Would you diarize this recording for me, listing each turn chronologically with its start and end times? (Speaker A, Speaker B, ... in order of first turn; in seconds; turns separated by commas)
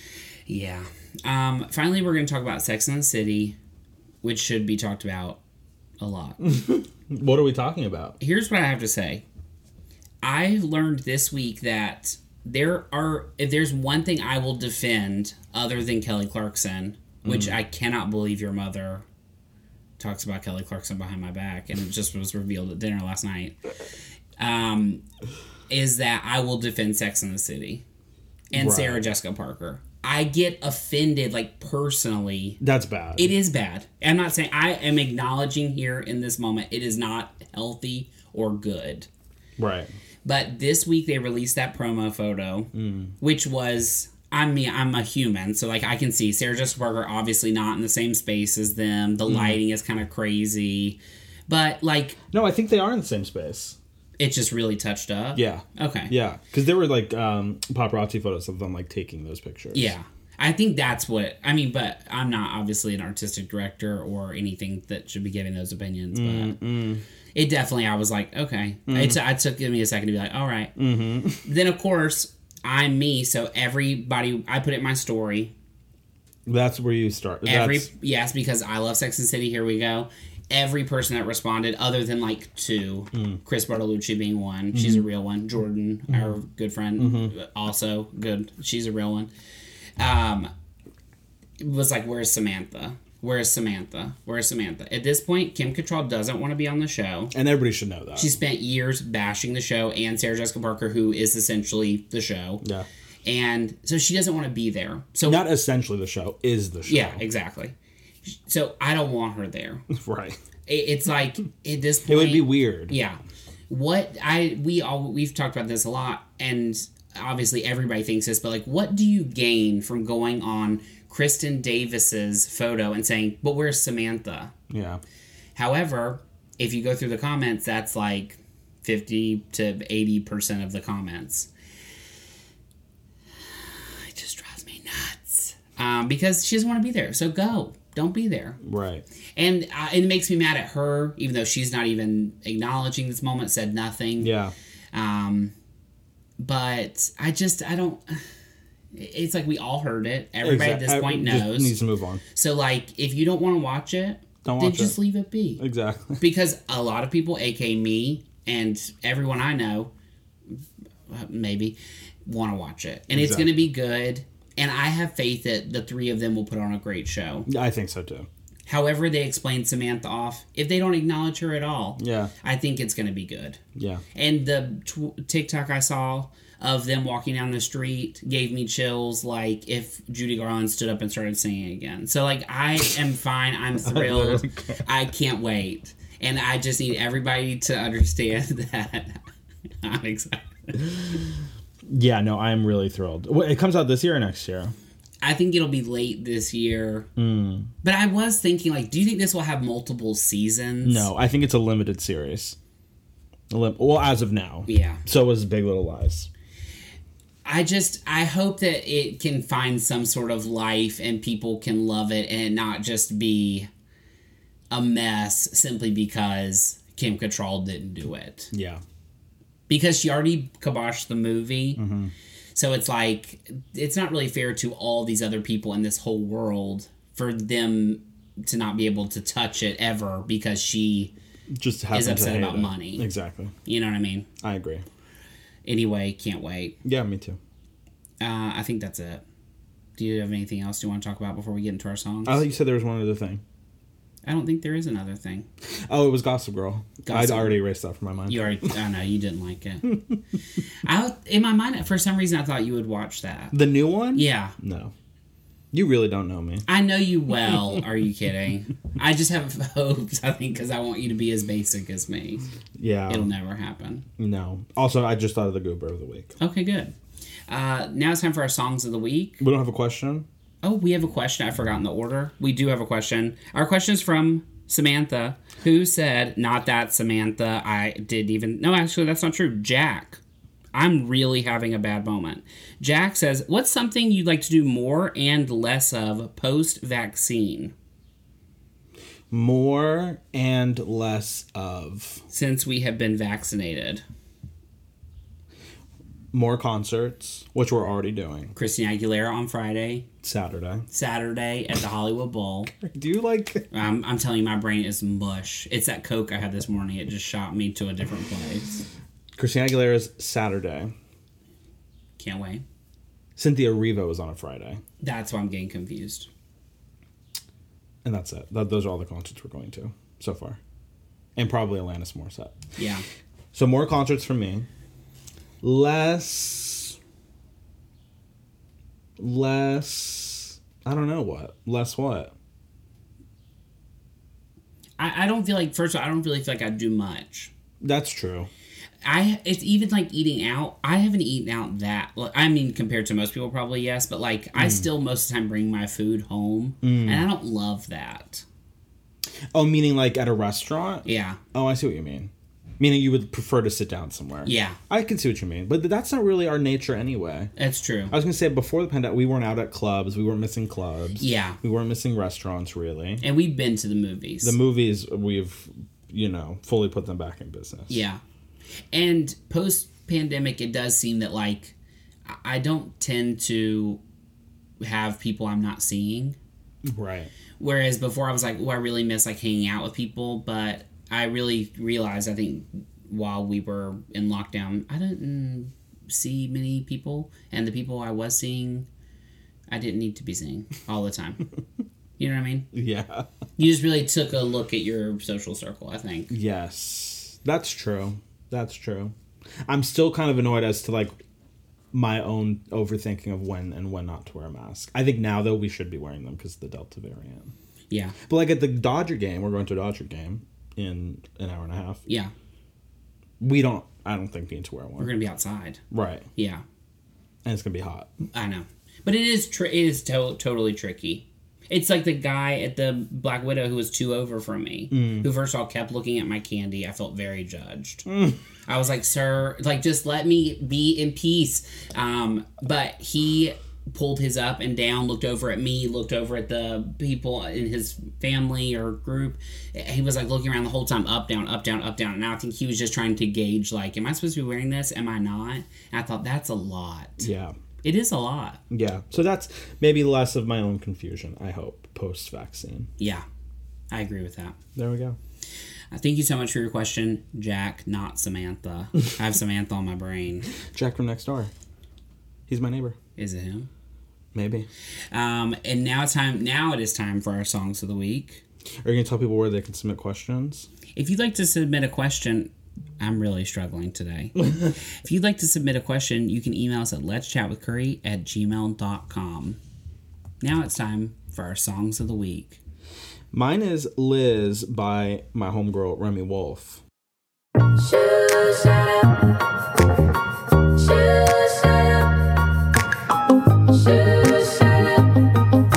Speaker A: 0.5-3.6, Speaker A: 4.2-5.4, Speaker A: 6.0-6.4, Speaker B: 6.4-8.2, Speaker A: 8.2-9.2, Speaker A: 10.2-19.0, Speaker B: 17.2-17.6, Speaker A: 20.0-23.6, Speaker A: 24.4-25.0, Speaker A: 25.7-27.8, Speaker A: 28.5-32.6, Speaker B: 28.5-29.1, Speaker B: 32.6-33.3, Speaker A: 33.2-39.1, Speaker B: 39.6-39.9, Speaker A: 40.2-52.2, Speaker B: 42.7-43.1, Speaker B: 49.3-49.6, Speaker B: 52.3-53.8, Speaker A: 54.2-56.1, Speaker B: 55.3-59.9, Speaker A: 59.7-66.5, Speaker B: 66.1-67.0, Speaker A: 67.3-70.7, Speaker B: 68.9-69.2, Speaker B: 70.8-71.5, Speaker A: 71.4-75.5, Speaker B: 76.5-77.9, Speaker A: 77.4-89.3, Speaker B: 83.1-83.4, Speaker B: 84.7-85.0, Speaker B: 87.0-87.3, Speaker A: 90.0-90.5, Speaker A: 91.6-97.3, Speaker B: 97.3-98.3, Speaker A: 98.2-102.6, Speaker B: 102.6-102.9, Speaker A: 103.2-105.5, Speaker B: 105.2-107.2, Speaker A: 106.9-107.7, Speaker A: 108.2-109.8, Speaker B: 109.9-110.4, Speaker A: 110.7-124.5, Speaker B: 112.1-112.9, Speaker B: 124.7-125.0, Speaker A: 125.5-131.5, Speaker A: 133.6-138.6, Speaker B: 138.6-139.0, Speaker A: 139.3-144.3, Speaker B: 144.2-144.5, Speaker A: 144.9-145.5, Speaker A: 146.4-148.2, Speaker A: 148.9-151.8, Speaker B: 150.4-152.2, Speaker A: 152.3-155.6, Speaker B: 154.4-155.0, Speaker B: 155.6-156.2, Speaker A: 156.2-159.9, Speaker A: 161.1-167.5, Speaker B: 163.1-163.6, Speaker B: 167.5-168.3, Speaker A: 168.7-173.6, Speaker B: 172.0-172.3, Speaker B: 173.8-174.0, Speaker A: 174.1-189.2, Speaker B: 183.8-184.8, Speaker A: 189.8-191.1, Speaker B: 190.8-191.2, Speaker B: 191.8-194.7, Speaker A: 195.2-197.1, Speaker B: 197.2-197.7, Speaker A: 197.8-201.1, Speaker B: 200.8-202.6, Speaker B: 203.5-206.3, Speaker A: 204.7-205.0, Speaker A: 207.4-213.7, Speaker A: 214.7-218.5, Speaker B: 218.5-218.8, Speaker A: 219.7-221.8, Speaker B: 221.8-222.1, Speaker A: 222.5-231.1, Speaker B: 231.6-233.5, Speaker A: 231.9-233.0, Speaker A: 233.7-234.3, Speaker B: 234.4-234.8, Speaker A: 235.6-236.8, Speaker B: 236.8-237.4, Speaker A: 238.2-239.2, Speaker A: 240.0-242.4, Speaker B: 242.2-243.4, Speaker A: 244.2-245.5, Speaker B: 245.9-248.5, Speaker A: 247.0-247.6, Speaker A: 248.3-250.0, Speaker A: 250.8-253.6, Speaker B: 253.5-254.9, Speaker A: 254.1-254.5, Speaker B: 255.7-256.6, Speaker A: 256.6-262.4, Speaker B: 262.8-263.3, Speaker A: 263.1-264.0, Speaker B: 264.2-266.3, Speaker A: 266.4-266.9, Speaker A: 267.5-269.4, Speaker B: 269.4-270.2, Speaker A: 270.6-280.2, Speaker A: 280.7-287.7, Speaker B: 289.3-292.2, Speaker A: 292.3-294.0, Speaker B: 296.3-298.5, Speaker A: 298.5-300.1, Speaker B: 300.2-300.9, Speaker A: 300.9-302.7, Speaker B: 302.7-303.7, Speaker A: 303.7-308.8, Speaker B: 309.4-310.9, Speaker A: 312.2-312.6, Speaker B: 313.4-314.8, Speaker A: 315.0-316.3, Speaker B: 318.0-320.6, Speaker B: 321.4-322.6, Speaker A: 322.8-323.0, Speaker B: 323.5-324.7, Speaker B: 325.6-327.0, Speaker B: 329.2-332.3, Speaker A: 335.0-337.5, Speaker B: 337.8-338.5, Speaker A: 339.0-348.4, Speaker B: 344.6-344.9, Speaker B: 346.8-347.3, Speaker B: 349.5-357.5, Speaker A: 351.0-351.4, Speaker A: 354.4-354.8, Speaker A: 357.6-358.1, Speaker B: 358.1-363.2, Speaker A: 361.2-361.6, Speaker A: 363.2-364.6, Speaker B: 364.4-368.0, Speaker A: 367.9-368.2, Speaker A: 368.9-371.7, Speaker A: 372.2-374.0, Speaker A: 374.8-376.4, Speaker B: 376.9-377.3, Speaker A: 377.6-388.9, Speaker A: 389.7-391.4, Speaker A: 392.2-392.7, Speaker B: 392.7-393.3, Speaker A: 393.6-396.3, Speaker B: 396.3-399.1, Speaker B: 399.6-401.2, Speaker B: 401.9-407.5, Speaker A: 407.9-408.1, Speaker B: 408.3-412.0, Speaker A: 412.1-412.3, Speaker B: 413.4-415.1, Speaker A: 415.0-415.8, Speaker B: 415.9-416.3, Speaker A: 416.3-416.6, Speaker B: 417.4-418.1, Speaker A: 418.3-428.1, Speaker B: 424.9-425.3, Speaker B: 428.1-428.4, Speaker A: 428.7-447.3, Speaker B: 447.2-447.5, Speaker A: 447.8-448.6, Speaker B: 448.7-452.9, Speaker A: 453.0-453.2, Speaker A: 453.9-454.6, Speaker B: 454.8-455.2, Speaker A: 455.9-460.5, Speaker B: 460.7-461.5, Speaker B: 462.5-462.9, Speaker A: 463.1-463.7, Speaker B: 464.3-464.7, Speaker A: 465.1-468.4, Speaker B: 468.8-470.7, Speaker A: 470.9-479.6, Speaker A: 480.4-482.6, Speaker B: 483.3-486.8, Speaker C: 487.8-489.3, Speaker C: 490.7-492.3, Speaker C: 493.7-495.1